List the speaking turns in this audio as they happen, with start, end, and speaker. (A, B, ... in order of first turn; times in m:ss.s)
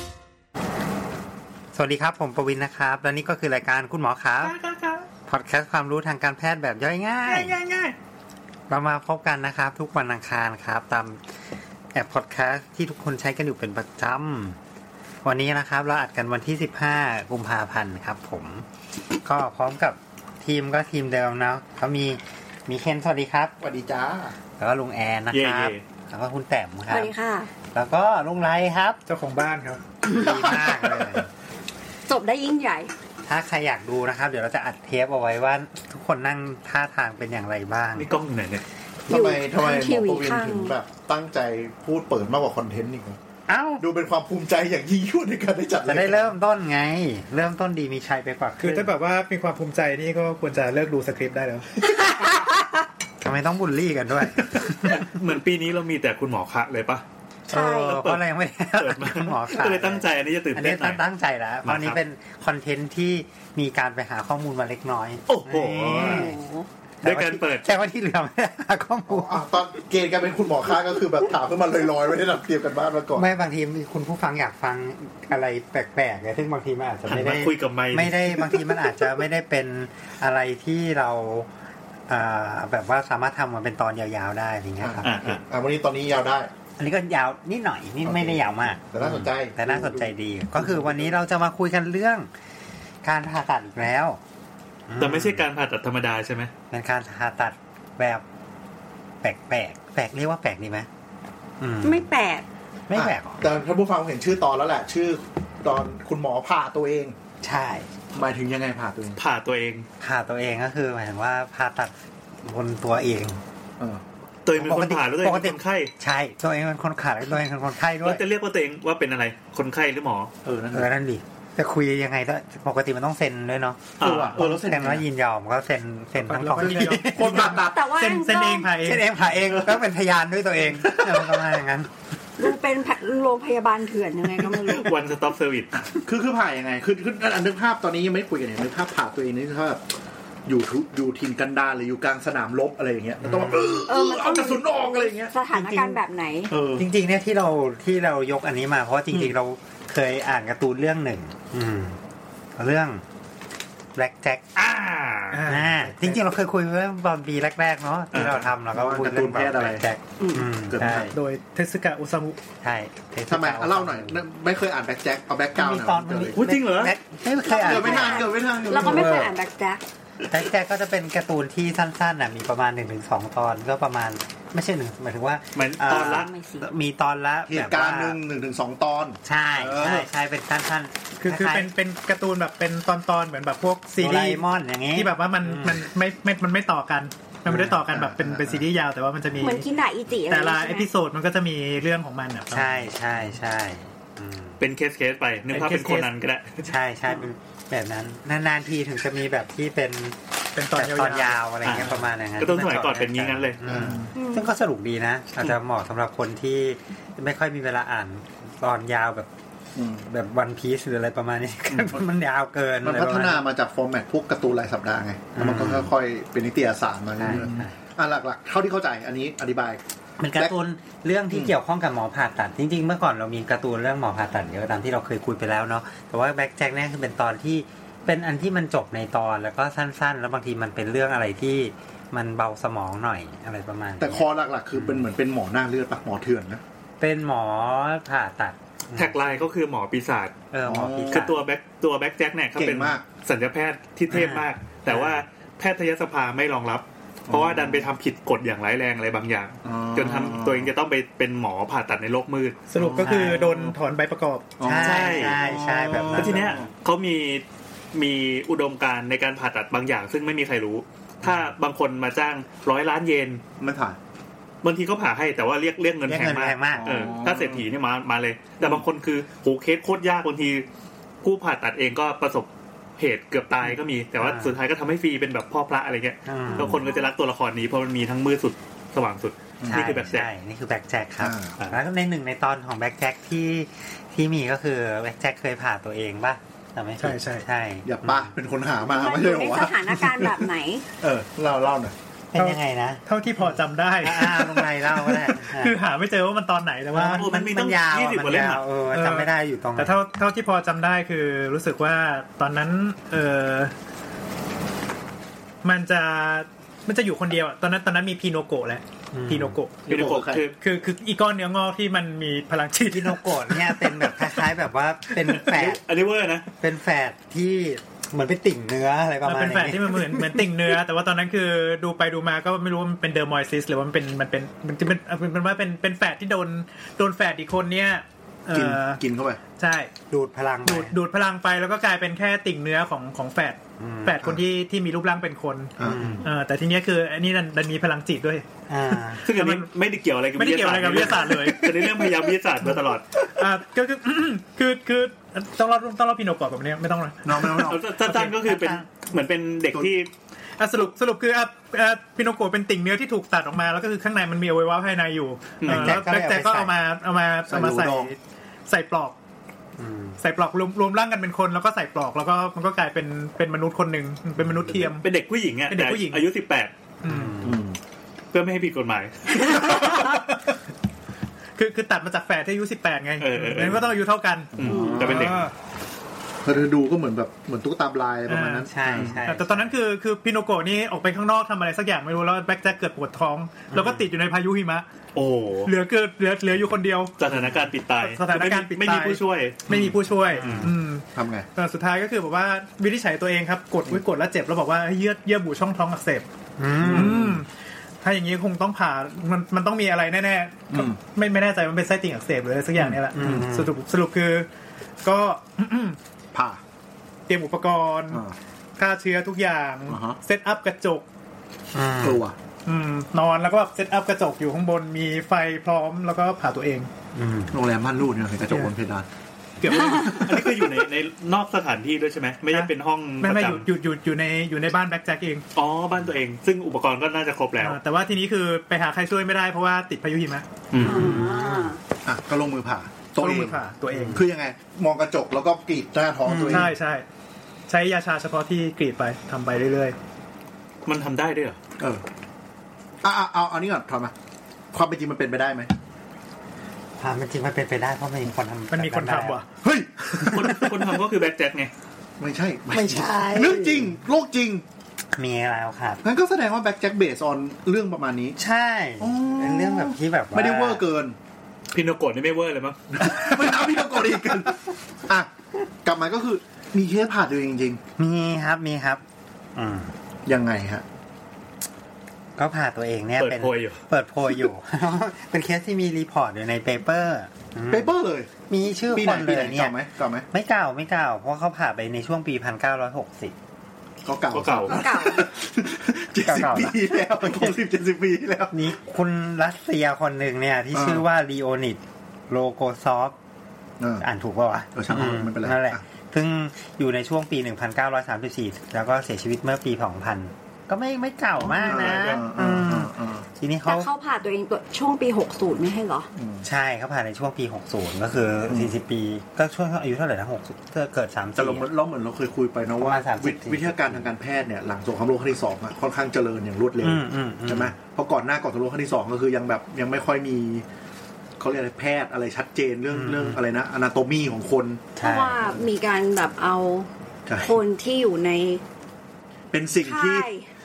0:01.7-0:04.5 A
0:04.4-0:05.0 B
0:05.2-0:07.5 A
0:07.2-0:07.9 B
0:08.7-0:11.2 A
0:11.9-0:14.6 A
0:15.2-0:18.6 A
0:19.2-0:23.5 A
0:23.6-0:24.3 C
0:24.6-0:27.1 A
0:25.3-0:25.8 B
0:26.9-0:27.5 D
0:27.7-0:29.0 A
0:29.1-0:29.8 E
0:30.0-0:30.4 D
0:30.0-0:31.3 A
0:30.3-0:31.3 C
0:32.1-0:32.9 D
0:33.2-0:38.1 A
0:38.0-0:38.6 B
0:39.1-0:43.2 C
0:39.1-0:40.7 D
0:43.5-0:43.8 A
0:43.8-0:46.3 C
0:45.8-0:48.9 A
0:48.6-0:51.9 E
0:53.2-0:55.0 A
0:54.7-0:57.0 B
0:57.5-1:06.4 A
0:57.5-0:58.0 D
0:57.8-1:01.0 B
1:01.6-1:02.0 B
1:05.3-1:06.3 B
1:06.0-1:06.6 D
1:07.0-1:07.7 B
1:07.0-1:09.4 A
1:09.1-1:13.3 C
1:13.1-1:21.5 A
1:17.1-1:18.6 B
1:22.1-1:25.2 A
1:24.8-1:26.5 C
1:25.0-1:25.4 B
1:26.8-1:32.3 A
1:28.0-1:31.2 C
1:33.0-1:34.2 A
1:34.9-1:35.4 A
1:35.0-1:36.5 B
1:36.7-1:38.2 A
1:39.2-1:40.9 A
1:41.6-1:42.1 A
1:41.8-1:42.4 D
1:42.9-1:43.4 A
1:42.9-1:47.2 C
1:47.4-1:47.9 A
1:48.1-1:49.2 C
1:49.2-1:49.9 B
1:50.0-1:53.4 A
1:54.4-1:55.9 B
1:54.6-1:58.2 A
1:58.0-2:00.3 B
2:00.4-2:00.9 C
2:00.7-2:07.6 A
2:04.0-2:04.4 B
2:04.0-2:05.0 C
2:06.2-2:09.0 E
2:06.6-2:08.0 C
2:07.7-2:08.8 D
2:08.8-2:11.9 A
2:09.4-2:09.8 C
2:10.8-2:11.5 C
2:12.4-2:14.9 D
2:14.6-2:15.7 B
2:15.9-2:19.8 C
2:20.4-2:25.3 C
2:23.2-2:23.9 A
2:23.8-2:26.5 D
2:25.5-2:26.0 A
2:26.5-2:26.9 C
2:26.8-2:32.0 A
2:32.6-2:33.0 A
2:33.9-2:34.4 A
2:34.5-2:35.4 B
2:35.3-2:36.2 E
2:35.4-2:41.1 A
2:38.1-2:38.4 B
2:38.7-2:39.8 C
2:40.2-2:40.5 D
2:40.7-2:41.1 C
2:40.9-2:42.4 E
2:42.6-2:44.2 A
2:43.3-2:46.4 C
2:45.5-2:49.3 A
2:46.3-2:47.0 B
2:47.4-2:49.8 D
2:47.6-2:49.3 C
2:50.3-2:58.2 A
2:55.6-2:56.3 B
2:56.0-2:56.7 D
2:57.5-3:00.1 C
2:59.2-3:01.7 A
3:01.2-3:09.7 E
3:04.0-3:05.9 A
3:07.5-3:07.8 A
3:07.5-3:08.6 C
3:09.4-3:10.9 D
3:10.3-3:12.8 E
3:12.5-3:14.6 A
3:14.6-3:16.7 B
3:15.5-3:16.1 E
3:16.6-3:20.2 A
3:20.5-3:21.4 E
3:20.7-3:29.3 A
3:21.6-3:23.9 B
3:23.7-3:24.1 C
3:24.1-3:24.5 D
3:29.8-3:30.0 C
3:30.0-3:33.4 A
3:32.8-3:39.8 C
3:35.4-3:35.9 A
3:37.2-3:37.7 A
3:40.2-3:55.1 A
3:54.0-3:56.6 C
3:57.0-3:59.4 A
3:59.0-4:00.4 B
4:00.5-4:01.4 A
4:00.6-4:01.3 C
4:01.1-4:12.7 B
4:02.6-4:03.0 C
4:04.1-4:05.2 A
4:07.3-4:07.9 C
4:09.6-4:10.7 C
4:12.7-4:14.6 E
4:12.8-4:13.7 C
4:13.0-4:13.4 A
4:14.6-4:16.7 C
4:14.6-4:16.6 A
4:14.7-4:23.4 B
4:23.6-4:24.0 C
4:24.6-4:30.6 B
4:26.1-4:27.1 A
4:26.8-4:27.6 C
4:31.2-4:40.3 B
4:34.2-4:34.5 A
4:36.2-4:36.9 A
4:39.6-4:40.0 C
4:39.7-4:48.3 A
4:41.2-4:41.6 C
4:47.0-4:47.4 E
4:47.8-4:50.3 C
4:48.8-4:50.8 D
4:51.0-4:51.9 C
4:52.3-4:53.0 A
4:52.3-4:57.3 E
4:54.0-4:55.7 A
4:56.9-5:00.0 A
4:57.1-4:58.6 B
4:58.9-5:03.7 E
5:05.6-5:09.8 E
5:09.1-5:09.6 A
5:09.8-5:10.4 C
5:09.9-5:10.5 B
5:10.6-5:14.2 E
5:12.9-5:15.8 A
5:15.2-5:16.4 B
5:16.6-5:20.4 A
5:19.2-5:29.0 E
5:28.5-5:29.4 C
5:29.6-5:29.9 E
5:30.1-5:30.9 A
5:30.6-5:38.4 E
5:33.8-5:34.2 A
5:35.8-5:36.2 C
5:35.8-5:36.2 A
5:38.7-5:39.2 A
5:39.1-5:39.7 E
5:39.2-5:43.2 B
5:40.3-5:42.1 E
5:43.3-5:48.4 E
5:47.2-5:47.8 C
5:47.5-5:50.1 B
5:48.4-5:48.8 A
5:50.6-5:59.2 E
5:55.6-5:56.0 B
5:55.6-5:56.8 A
5:57.5-5:58.1 C
5:59.8-6:00.2 A
6:00.2-6:05.1 E
6:04.8-6:06.7 B
6:05.7-6:06.3 E
6:07.0-6:07.4 E
6:07.0-6:07.6 A
6:07.4-6:07.8 C
6:08.3-6:09.8 B
6:09.5-6:09.9 C
6:11.6-6:15.5 E
6:13.2-6:13.8 B
6:14.6-6:15.4 B
6:14.6-6:15.4 C
6:14.7-6:15.0 D
6:16.4-6:19.2 C
6:18.3-6:24.8 E
6:18.7-6:19.7 A
6:23.7-6:24.1 A
6:25.1-6:25.7 B
6:25.6-6:27.1 E
6:27.2-6:29.8 B
6:28.0-6:36.2 E
6:30.3-6:30.7 B
6:30.3-6:30.7 A
6:30.6-6:31.5 C
6:36.6-6:37.4 A
6:36.8-6:37.5 E
6:36.8-6:37.4 C
6:38.0-6:44.5 E
6:40.7-6:41.0 C
6:42.8-6:43.7 A
6:45.0-6:46.0 E
6:46.3-6:46.6 C
6:47.3-6:48.2 E
6:48.8-6:51.0 E
6:49.9-6:50.2 C
6:51.7-6:52.2 A
6:52.0-6:52.3 C
6:52.6-6:56.9 E
6:57.1-6:57.6 A
6:57.5-6:59.1 C
6:59.6-7:00.4 E
6:59.6-7:03.6 B
6:59.7-7:00.2 D
7:02.5-7:05.4 E
7:05.5-7:07.8 B
7:07.6-7:10.5 E
7:10.7-7:11.2 B
7:10.8-7:11.7 A
7:10.8-7:11.8 D
7:12.0-7:13.6 C
7:13.2-7:14.2 E
7:14.1-7:16.7 C
7:16.2-7:16.7 A
7:16.5-7:17.0 E
7:17.7-7:20.0 E
7:20.8-7:21.6 B
7:21.8-7:22.0 C
7:23.0-7:24.1 C
7:24.7-7:25.7 C
7:27.0-7:29.4 A
7:28.7-7:29.4 E
7:29.6-7:31.0 C
7:30.1-7:31.7 B
7:32.2-7:34.6 C
7:32.7-7:34.0 A
7:35.1-7:36.0 A
7:36.0-7:38.4 C
7:38.4-7:40.8 A
7:39.0-7:41.2 C
7:41.7-7:43.6 B
7:42.9-7:45.3 C
7:45.8-7:47.8 C
7:48.0-7:49.0 A
7:49.6-7:49.9 A
7:50.2-7:50.8 C
7:52.4-7:57.9 A
7:53.2-7:53.8 B
7:57.7-7:58.3 C
7:58.5-7:59.7 A
7:58.9-8:00.2 C
8:00.3-8:03.3 A
8:04.0-8:08.6 C
8:04.3-8:04.8 B
8:04.7-8:05.3 D
8:06.2-8:07.6 A
8:08.5-8:13.2 A
8:10.7-8:11.0 C
8:13.8-8:14.0 C
8:14.0-8:23.9 A
8:14.7-8:15.8 C
8:21.4-8:22.2 B
8:21.6-8:23.2 C
8:23.6-8:26.1 D
8:26.1-8:26.4 C
8:26.4-8:31.7 A
8:31.4-8:40.6 C
8:32.8-8:34.1 A
8:36.8-8:37.7 A
8:41.4-8:44.9 C
8:42.9-8:43.4 A
8:45.0-8:45.5 A
8:45.0-8:46.9 D
8:47.3-8:47.6 C
8:47.4-8:48.6 D
8:49.5-8:50.3 C
8:49.8-8:50.5 D